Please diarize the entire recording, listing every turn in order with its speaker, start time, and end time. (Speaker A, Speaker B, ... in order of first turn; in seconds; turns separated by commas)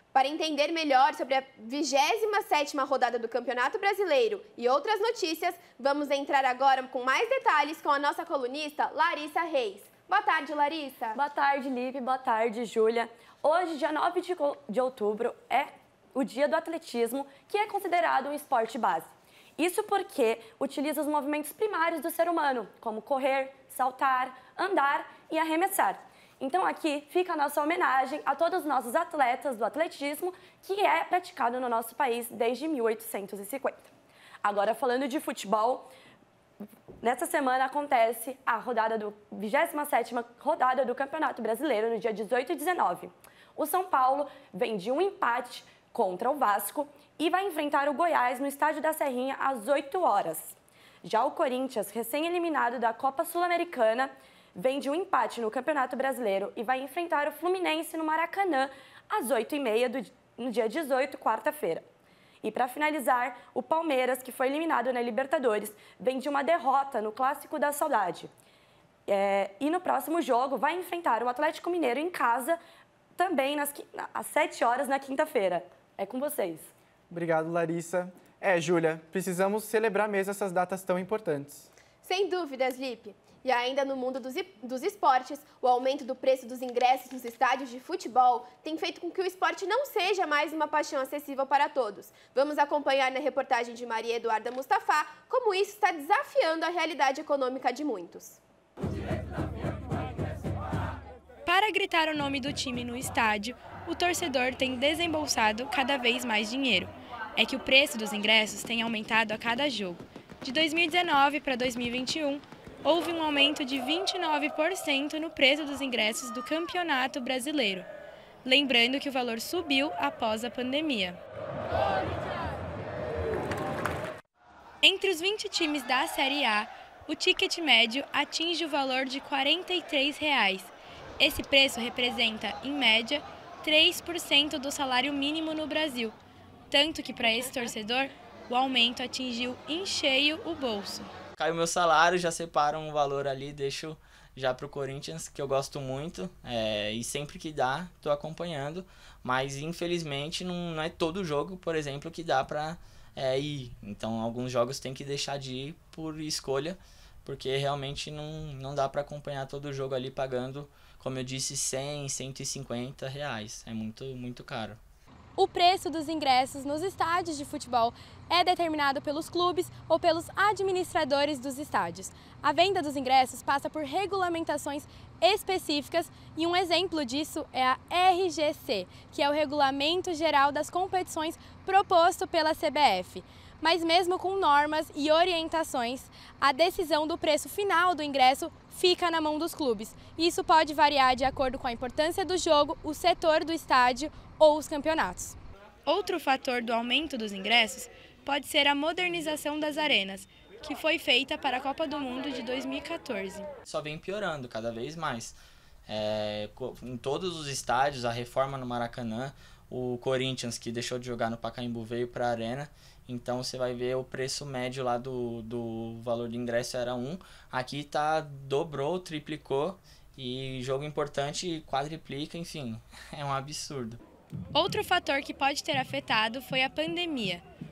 Speaker A: 0.1-11.2, Speaker B: 11.2-33.9, Speaker B: 34.4-35.9, Speaker B: 37.0-61.9, Speaker B: 62.4-68.3, Speaker B: 69.1-72.6, Speaker B: 73.2-76.7, Speaker C: 77.1-81.7, Speaker A: 82.0-98.4, Speaker D: 101.5-117.9, Speaker D: 118.4-121.2, Speaker D: 124.8-136.2, Speaker D: 136.7-141.1, Speaker E: 141.4-164.8, Speaker D: 165.4-203.5, Speaker E: 203.7-224.0, Speaker D: 224.5-227.4